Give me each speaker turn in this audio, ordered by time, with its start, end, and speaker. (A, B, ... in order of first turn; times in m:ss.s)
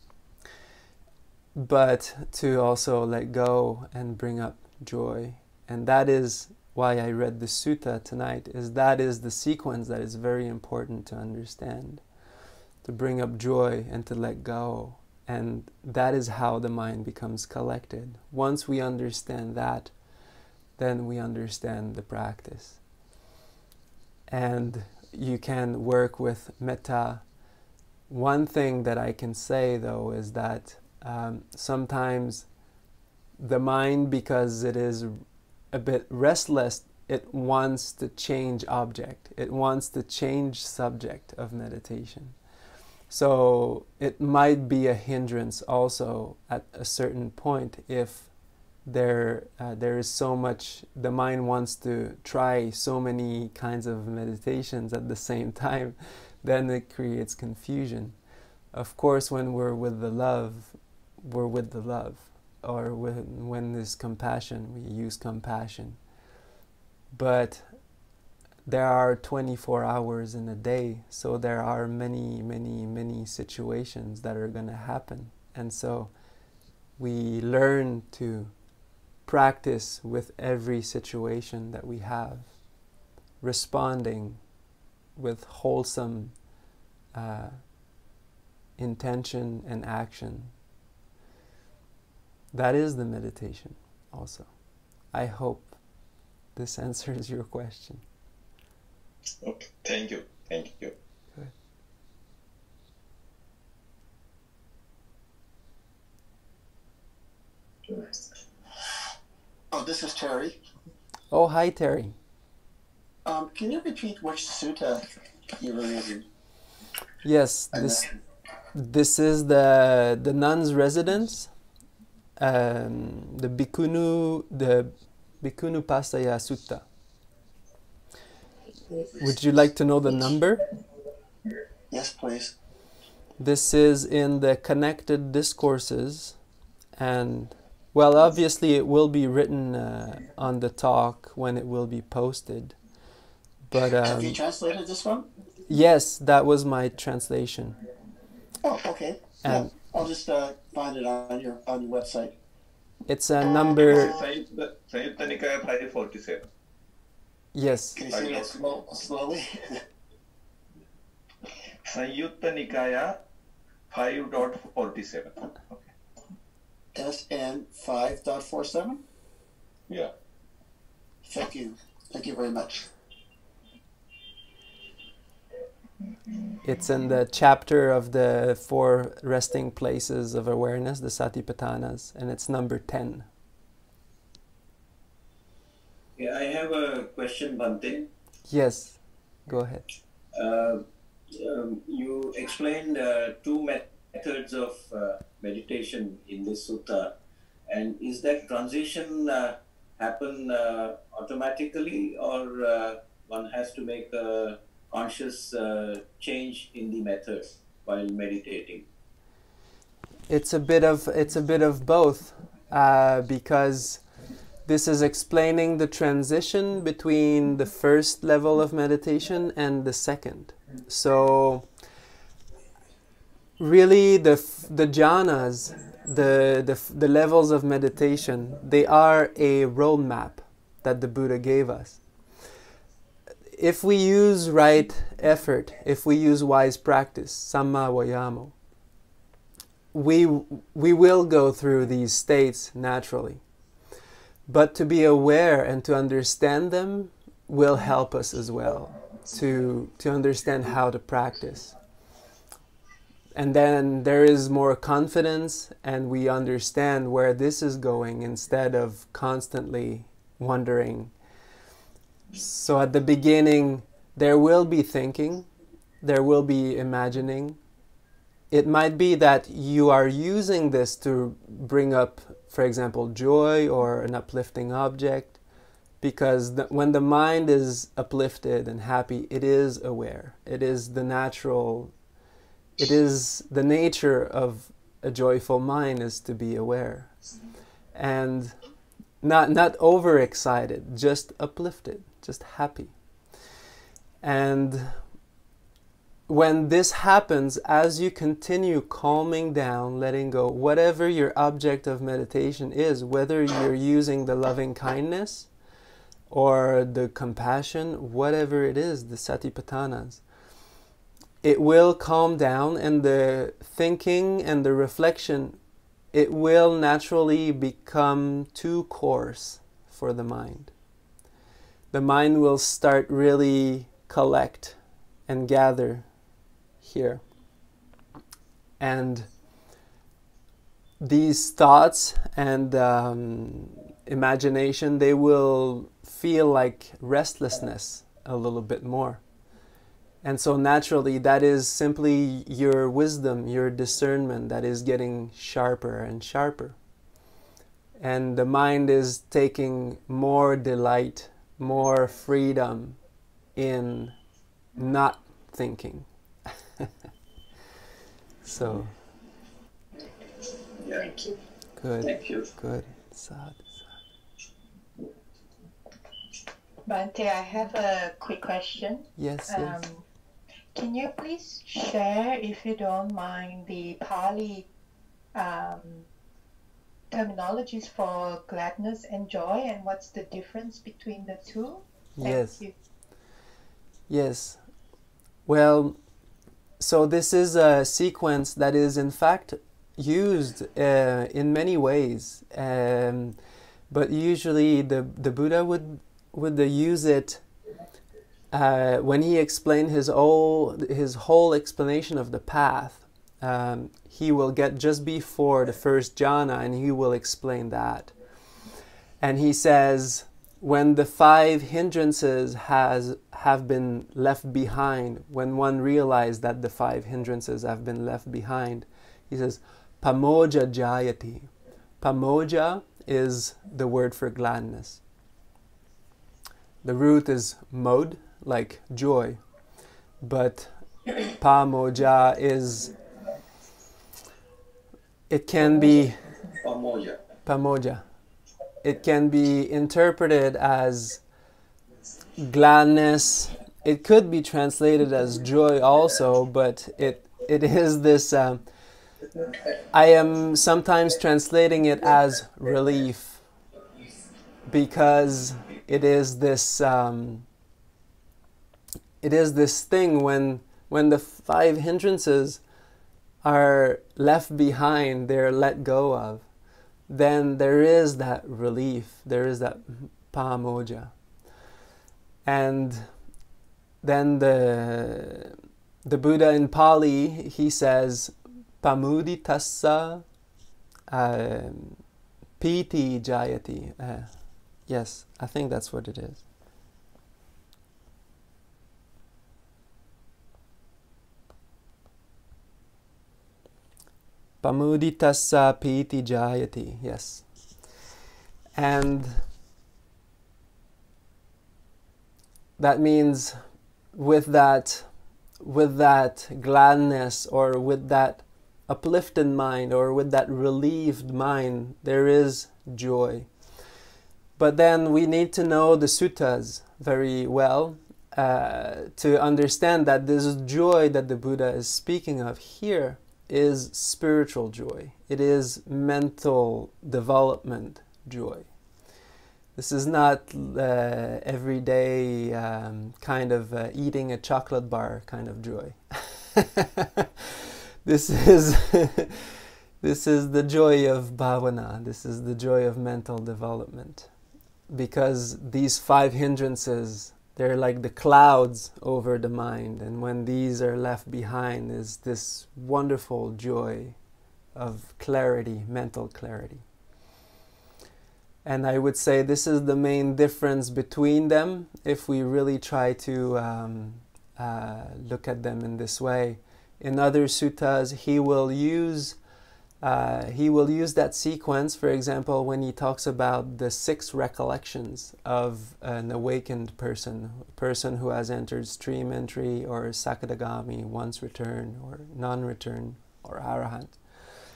0:01.6-0:12.0 A
0:12.8-0:19.9 A
0:20.8-0:22.8 A
0:24.3-0:27.2 A
0:28.1-0:32.5 A
0:33.4-0:35.2 A
0:35.7-0:42.4 A
0:43.1-0:48.3 A
0:48.8-0:58.2 A
0:58.7-1:06.0 A
1:07.1-1:07.8 A
1:08.7-1:16.1 A
1:17.0-1:18.5 A
1:19.3-1:22.5 A
1:23.4-1:24.4 A
1:25.2-1:26.3 A
1:27.1-1:27.6 A
1:28.8-1:30.5 A
1:32.5-1:34.5 A
1:35.1-1:35.8 A
1:36.6-1:38.0 A
1:39.4-1:40.9 B
1:49.7-1:50.6 C
1:51.3-1:52.2 A
1:53.2-1:55.0 C
1:55.6-1:56.3 C
1:57.2-1:58.0 A
1:57.7-1:58.0 C
1:58.7-2:01.5 A
2:02.4-2:06.8 A
2:09.2-2:10.6 A
2:11.9-2:12.6 C
2:13.4-2:16.4 A
2:17.0-2:22.8 A
2:23.7-2:24.4 A
2:24.0-2:25.3 C
2:25.7-2:27.8 A
2:28.6-2:32.3 C
2:29.4-2:29.7 A
2:33.1-2:34.1 A
2:33.9-2:36.5 B
2:37.5-2:38.0 A
2:38.0-2:39.8 C
2:38.1-2:38.5 B
2:41.8-2:43.2 B
2:43.9-2:45.8 B
2:46.9-2:49.0 C
2:51.3-2:52.9 C
2:56.6-3:03.3 A
3:06.2-3:08.1 D
3:08.5-3:09.9 A
3:10.4-3:17.1 D
3:17.7-3:28.9 D
3:30.3-3:34.0 A
3:34.7-3:41.7 A
3:43.6-3:52.0 A
3:53.5-3:58.6 A
3:59.9-4:03.4 A
4:04.5-4:11.8 A
4:13.4-4:21.1 A
4:22.3-4:25.5 A
4:26.0-4:27.6 A
4:28.5-4:35.4 A
4:36.0-4:41.9 A
4:42.8-4:47.2 A
4:48.0-4:48.6 A
4:49.2-4:52.9 A
4:54.2-4:55.0 A
4:56.3-5:05.5 A
5:06.3-5:10.2 A
5:11.4-5:15.6 A
5:16.1-5:20.7 A
5:21.9-5:26.1 A
5:26.8-5:27.2 A
5:28.8-5:29.3 A
5:31.0-5:39.2 A
5:40.2-5:46.8 A
5:48.0-5:53.0 A
5:53.6-5:54.2 A
5:54.8-5:56.1 A
5:58.4-5:58.9 A
6:00.8-6:01.2 D
6:01.8-6:03.8 A
6:02.0-6:02.5 D
6:06.9-6:10.0 E
6:09.2-6:09.8 A
6:10.7-6:14.7 E
6:15.4-6:16.1 E
6:17.1-6:22.7 E
6:22.2-6:22.6 A
6:24.1-6:24.6 A
6:25.5-6:26.0 A
6:26.8-6:33.4 A
6:33.9-6:37.4 A
6:38.5-6:48.1 A
6:49.2-7:05.0 A
7:06.8-7:09.4 A
7:10.2-7:12.9 A
7:15.3-7:16.2 A
7:16.6-7:17.2 D
7:17.5-7:18.0 A
7:18.8-7:21.2 A
7:22.4-7:28.6 A
7:29.9-7:33.4 A
7:34.7-7:37.5 A
7:39.2-7:42.6 A
7:43.4-7:46.5 A
7:47.1-7:51.1 A
7:52.4-7:53.1 A
7:54.0-8:00.2 A
8:01.1-8:02.0 A
8:02.6-8:04.3 A
8:04.9-8:06.4 A
8:14.6-8:17.4 A
8:18.8-8:19.4 A
8:22.8-8:23.6 A
8:24.1-8:25.1 A
8:25.6-8:33.5 A
8:34.6-8:48.7 A
8:49.8-8:57.3 A
8:58.0-9:04.3 A
9:04.9-9:14.2 A
9:14.8-9:16.8 A
9:18.6-9:29.4 A
9:30.0-9:44.2 A